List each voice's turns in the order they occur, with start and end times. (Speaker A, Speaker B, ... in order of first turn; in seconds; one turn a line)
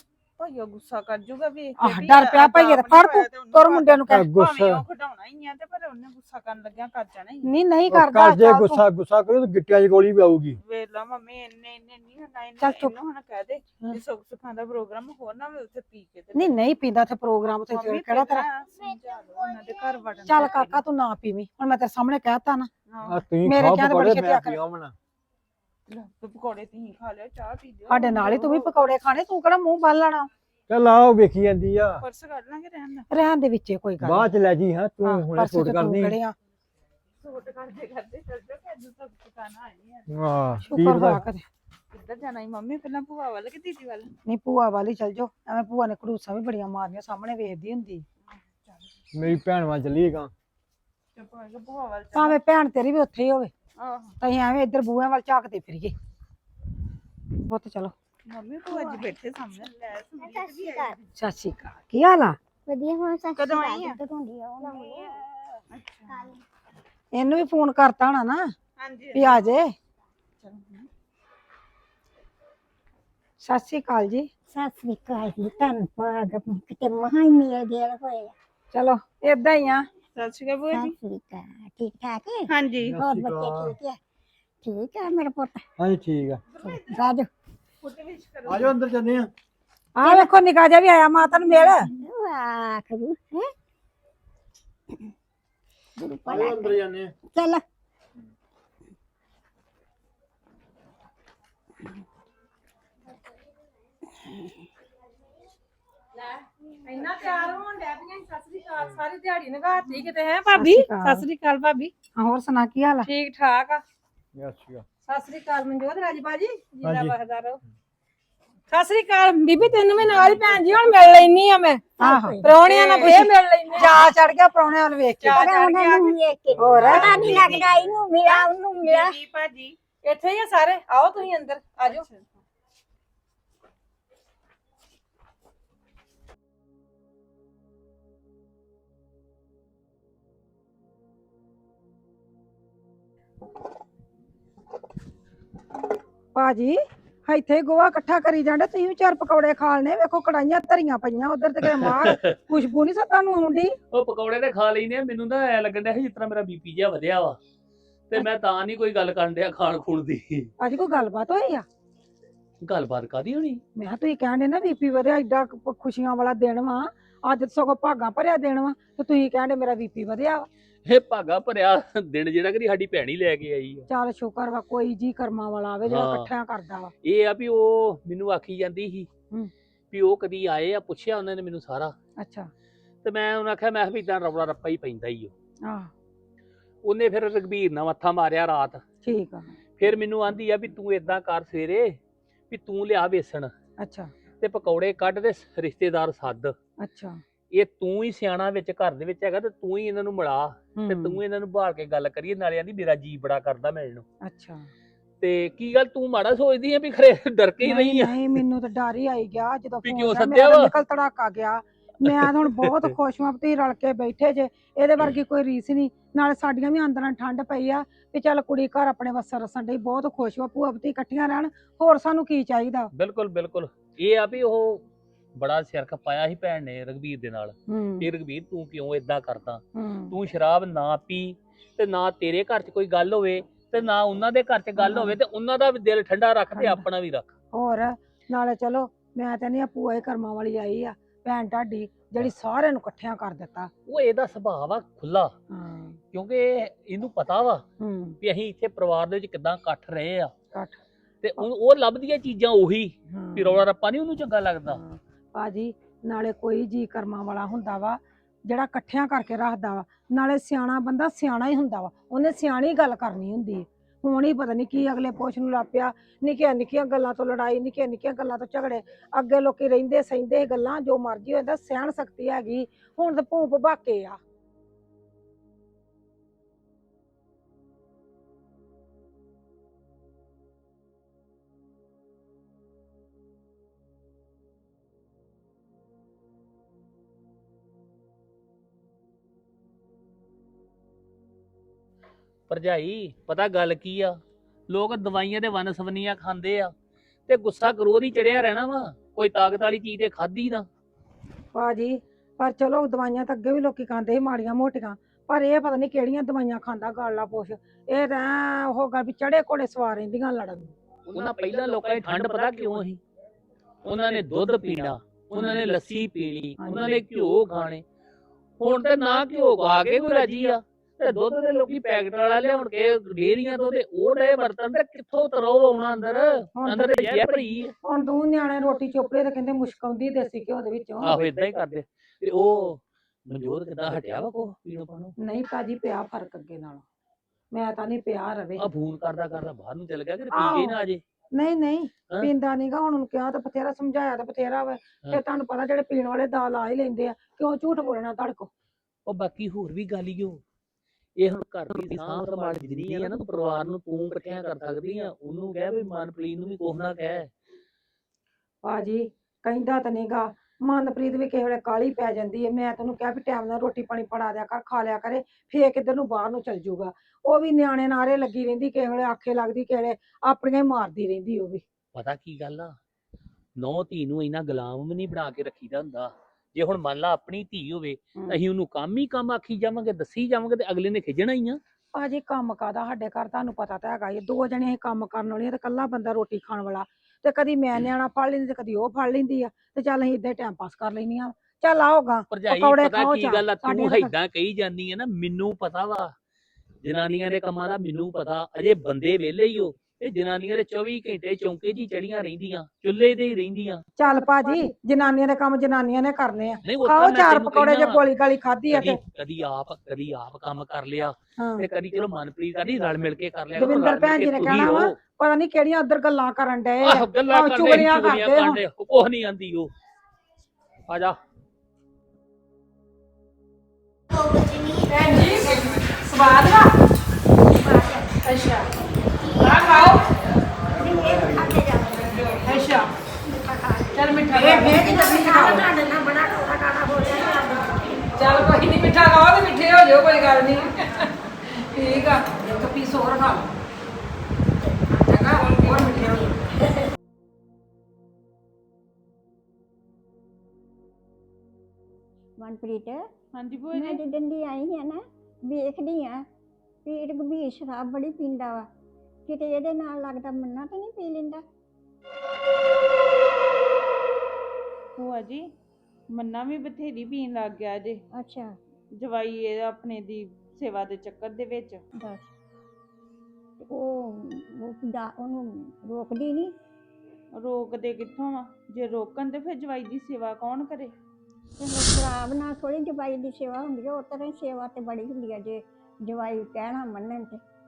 Speaker A: 0.4-7.5
Speaker B: 1.8-4.3
Speaker C: 4.1-4.8
Speaker B: 7.4-8.8
Speaker C: 7.9-10.6
Speaker A: 10.6-16.6
Speaker B: 12.6-12.9
Speaker B: 16.3-18.4
Speaker A: 17.7-20.8
Speaker B: 20.2-22.7
Speaker A: 22.9-23.3
Speaker C: 23.1-24.9
Speaker B: 23.4-24.6
Speaker A: 25.9-28.9
Speaker B: 27.9-30.3
Speaker C: 30.7-32.0
Speaker A: 32.0-33.1
Speaker B: 33.1-34.3
Speaker C: 34.0-36.2
Speaker B: 35.0-36.4
Speaker A: 37.2-40.1
Speaker C: 40.1-41.2
Speaker B: 40.7-41.5
Speaker A: 41.9-44.1
Speaker B: 44.2-48.0
Speaker A: 48.2-49.4
Speaker C: 49.1-50.3
Speaker A: 51.1-52.4
Speaker B: 52.1-53.5
Speaker A: 53.8-54.2
Speaker B: 54.2-55.9
Speaker B: 57.4-57.9
Speaker A: 58.2-61.1
Speaker D: 60.2-60.9
Speaker B: 61.1-62.4
Speaker D: 62.6-66.3
Speaker A: 63.3-64.0
Speaker A: 64.6-65.2
Speaker A: 65.7-66.3
Speaker B: 67.1-68.5
Speaker A: 68.8-69.4
Speaker B: 69.1-69.7
Speaker A: 70.4-70.9
Speaker B: 73.4-74.3
Speaker D: 74.5-78.3
Speaker B: 78.7-79.9
Speaker A: 80.1-80.9
Speaker D: 80.7-84.0
Speaker A: 82.5-83.0
Speaker C: 82.8-83.7
Speaker D: 84.6-85.6
Speaker C: 85.8-86.4
Speaker A: 86.5-87.1
Speaker D: 86.9-87.3
Speaker A: 87.8-88.8
Speaker C: 88.5-89.3
Speaker B: 90.0-91.9
Speaker D: 90.0-90.3
Speaker D: 91.9-93.5
Speaker D: 96.0-97.6
Speaker C: 96.2-97.1
Speaker D: 104.2-104.5
Speaker E: 106.2-111.9
Speaker B: 110.5-111.2
Speaker B: 112.1-113.1
Speaker E: 113.0-113.8
Speaker C: 114.3-114.8
Speaker E: 115.0-117.6
Speaker C: 116.8-117.2
Speaker E: 118.7-124.0
Speaker D: 122.0-122.5
Speaker B: 122.0-125.5
Speaker E: 125.2-126.1
Speaker D: 125.3-129.2
Speaker C: 126.6-127.5
Speaker B: 126.6-127.5
Speaker A: 126.8-127.7
Speaker A: 128.3-129.8
Speaker E: 130.0-132.0
Speaker A: 131.8-132.4
Speaker B: 146.3-153.7
Speaker F: 151.7-152.4
Speaker F: 153.9-157.4
Speaker F: 158.1-160.5
Speaker B: 160.6-161.7
Speaker F: 162.6-163.6
Speaker B: 163.8-170.5
Speaker F: 170.8-173.9
Speaker B: 173.9-176.9
Speaker F: 175.8-176.3
Speaker F: 177.0-179.1
Speaker F: 179.9-181.9
Speaker B: 182.2-182.5
Speaker F: 183.0-185.3
Speaker B: 185.6-185.9
Speaker F: 186.8-188.8
Speaker B: 189.0-189.5
Speaker F: 189.8-192.0
Speaker F: 192.5-193.5
Speaker B: 193.8-194.1
Speaker F: 194.4-196.5
Speaker B: 196.8-197.2
Speaker F: 197.5-204.0
Speaker B: 200.8-201.2
Speaker B: 204.2-204.7
Speaker F: 205.2-208.4
Speaker B: 207.6-222.9
Speaker F: 209.8-210.7
Speaker F: 212.6-212.9
Speaker F: 222.9-224.8
Speaker F: 225.3-237.3
Speaker B: 227.7-228.1
Speaker B: 229.7-230.1
Speaker B: 234.8-235.2
Speaker B: 236.5-236.8
Speaker B: 237.5-243.7
Speaker F: 243.8-245.3
Speaker B: 245.5-246.0
Speaker F: 246.1-247.6
Speaker B: 247.8-248.2
Speaker F: 248.2-250.3
Speaker B: 250.5-250.8
Speaker F: 251.2-254.8
Speaker B: 253.1-253.6
Speaker B: 254.7-274.2
Speaker F: 292.5-296.7
Speaker F: 297.3-300.7
Speaker B: 301.5-310.7
Speaker F: 311.1-313.0
Speaker F: 313.8-317.8
Speaker B: 315.4-315.6
Speaker B: 316.6-316.9
Speaker F: 318.6-327.7
Speaker B: 326.6-327.1
Speaker B: 327.8-331.2
Speaker F: 331.0-335.1
Speaker B: 335.2-336.8
Speaker B: 337.5-338.6
Speaker F: 338.6-341.0
Speaker B: 340.3-340.8
Speaker B: 341.3-348.5
Speaker F: 349.1-350.4
Speaker F: 351.2-357.3
Speaker B: 358.6-371.6
Speaker F: 371.9-372.8
Speaker F: 373.6-381.6
Speaker B: 381.9-394.1
Speaker F: 392.3-396.1
Speaker F: 396.8-403.8
Speaker B: 404.0-409.0
Speaker F: 406.6-408.0
Speaker F: 408.7-414.9
Speaker B: 411.4-411.6
Speaker B: 413.5-418.6
Speaker F: 416.8-419.7
Speaker F: 420.9-421.2
Speaker D: 424.1-425.0
Speaker E: 424.9-426.7
Speaker D: 427.5-428.2
Speaker E: 428.2-428.7
Speaker D: 429.2-429.9
Speaker E: 429.3-430.1
Speaker D: 430.7-432.7
Speaker E: 432.3-432.9
Speaker D: 433.4-433.9
Speaker E: 433.9-434.9
Speaker B: 434.3-435.7
Speaker D: 434.7-438.1
Speaker E: 438.1-441.1
Speaker B: 440.5-440.7
Speaker E: 441.7-442.2
Speaker B: 442.2-443.5
Speaker B: 445.0-446.8
Speaker D: 452.4-453.1
Speaker A: 453.3-454.0
Speaker D: 453.7-456.2
Speaker D: 456.8-458.7
Speaker D: 459.2-461.4
Speaker A: 464.9-465.5
Speaker A: 466.1-468.0
Speaker D: 468.1-468.6
Speaker A: 469.0-471.8
Speaker D: 472.0-472.3
Speaker D: 473.6-476.5
Speaker A: 477.4-480.9
Speaker D: 481.6-487.4